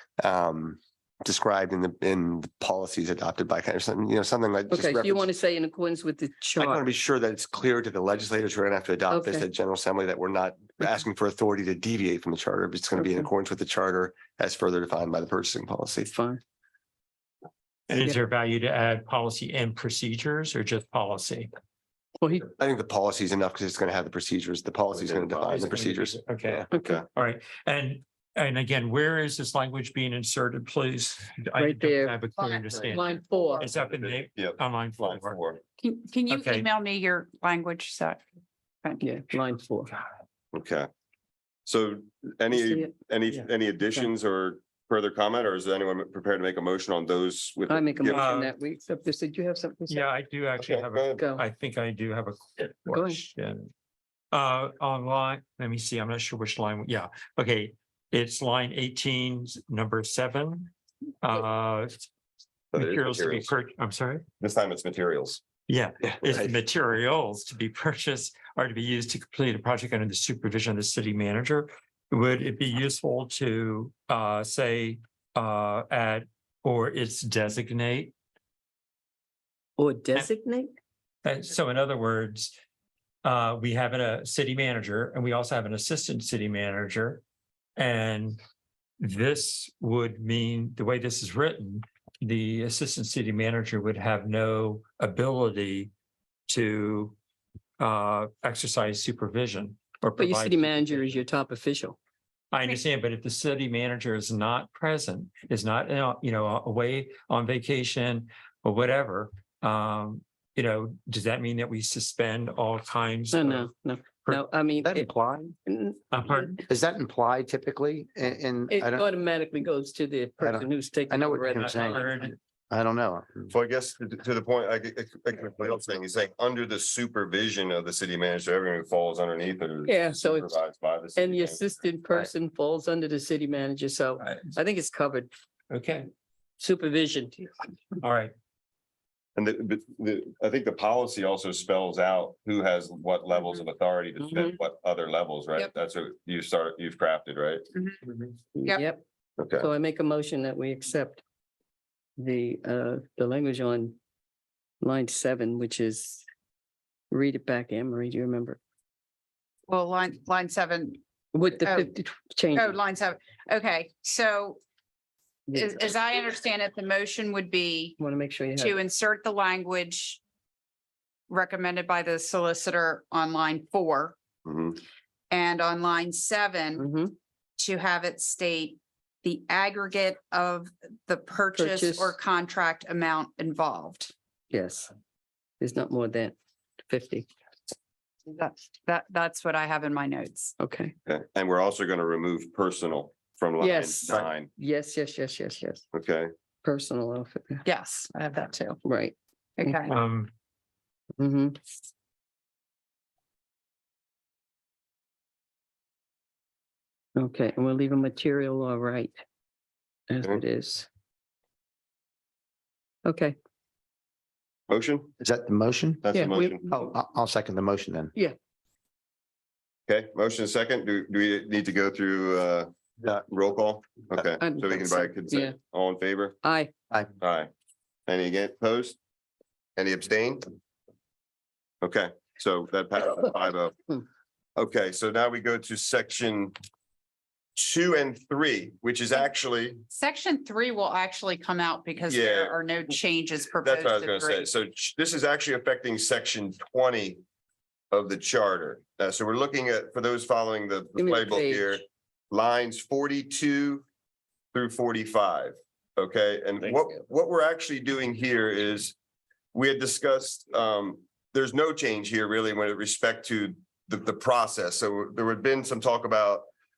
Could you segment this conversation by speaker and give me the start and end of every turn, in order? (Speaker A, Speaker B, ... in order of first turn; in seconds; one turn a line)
Speaker A: 0.2-5.3
Speaker B: 4.7-6.8
Speaker A: 6.5-16.1
Speaker B: 9.1-9.4
Speaker B: 16.1-16.4
Speaker C: 17.9-21.5
Speaker B: 22.2-22.5
Speaker A: 22.6-26.7
Speaker D: 24.9-25.5
Speaker C: 25.4-35.4
Speaker B: 26.7-27.0
Speaker D: 26.7-27.0
Speaker B: 31.6-32.2
Speaker E: 32.3-33.7
Speaker B: 32.9-33.6
Speaker D: 33.8-35.6
Speaker E: 35.8-38.2
Speaker C: 36.3-36.7
Speaker B: 39.0-40.0
Speaker D: 40.5-40.9
Speaker D: 41.6-48.3
Speaker B: 42.5-44.1
Speaker B: 47.7-50.1
Speaker C: 48.1-48.5
Speaker C: 49.9-53.7
Speaker D: 50.6-51.2
Speaker B: 51.2-51.4
Speaker B: 52.9-53.2
Speaker C: 54.3-62.1
Speaker D: 62.7-63.5
Speaker C: 62.7-64.2
Speaker D: 64.4-65.4
Speaker C: 65.7-78.1
Speaker B: 79.8-80.7
Speaker C: 81.2-82.5
Speaker C: 83.2-87.2
Speaker C: 87.8-88.4
Speaker C: 89.0-95.9
Speaker C: 96.5-97.2
Speaker C: 97.8-101.2
Speaker B: 100.2-102.0
Speaker C: 102.5-113.7
Speaker B: 113.3-115.1
Speaker F: 114.8-115.5
Speaker B: 115.7-116.5
Speaker C: 116.1-116.6
Speaker F: 116.7-119.1
Speaker B: 118.7-122.0
Speaker F: 120.4-123.5
Speaker C: 121.5-122.3
Speaker D: 123.5-131.8
Speaker B: 129.8-130.6
Speaker B: 131.2-135.3
Speaker C: 135.7-136.1
Speaker B: 136.6-137.6
Speaker C: 138.0-138.3
Speaker D: 139.3-147.6
Speaker B: 144.2-144.6
Speaker E: 147.7-148.0
Speaker B: 148.5-149.0
Speaker D: 149.4-149.7
Speaker B: 149.6-151.2
Speaker B: 152.2-154.0
Speaker B: 154.8-156.2
Speaker B: 157.1-158.6
Speaker E: 159.7-161.9
Speaker B: 161.3-162.8
Speaker E: 162.5-164.6
Speaker E: 165.5-168.0
Speaker B: 165.5-165.8
Speaker B: 168.0-168.8
Speaker E: 168.6-170.2
Speaker E: 171.3-174.2
Speaker D: 174.4-174.8
Speaker E: 175.3-176.9
Speaker B: 176.8-177.1
Speaker E: 177.6-184.1
Speaker B: 181.5-182.1
Speaker B: 184.5-184.9
Speaker B: 185.6-186.3
Speaker B: 186.9-187.3
Speaker E: 188.3-190.5
Speaker B: 190.6-190.9
Speaker D: 191.1-194.5
Speaker B: 193.6-195.8
Speaker D: 195.9-196.3
Speaker B: 196.6-197.6
Speaker E: 197.6-198.8
Speaker B: 198.8-199.8
Speaker E: 199.6-199.9
Speaker C: 199.9-200.3
Speaker B: 201.2-201.6
Speaker B: 207.2-209.2
Speaker B: 210.1-210.9
Speaker B: 213.0-213.3
Speaker D: 214.7-215.1
Speaker F: 215.2-218.1
Speaker D: 216.0-216.7
Speaker B: 216.1-216.7
Speaker D: 219.9-222.7
Speaker D: 223.2-226.3
Speaker B: 224.4-225.6
Speaker B: 226.4-226.7
Speaker D: 227.2-227.5
Speaker D: 228.1-229.0
Speaker D: 229.8-230.5
Speaker D: 231.8-233.9
Speaker D: 234.6-236.5
Speaker D: 237.6-239.8
Speaker E: 239.9-244.5
Speaker D: 242.1-242.6
Speaker D: 243.5-247.2
Speaker D: 247.9-253.8
Speaker B: 250.9-251.8
Speaker D: 254.5-258.9
Speaker D: 259.5-266.5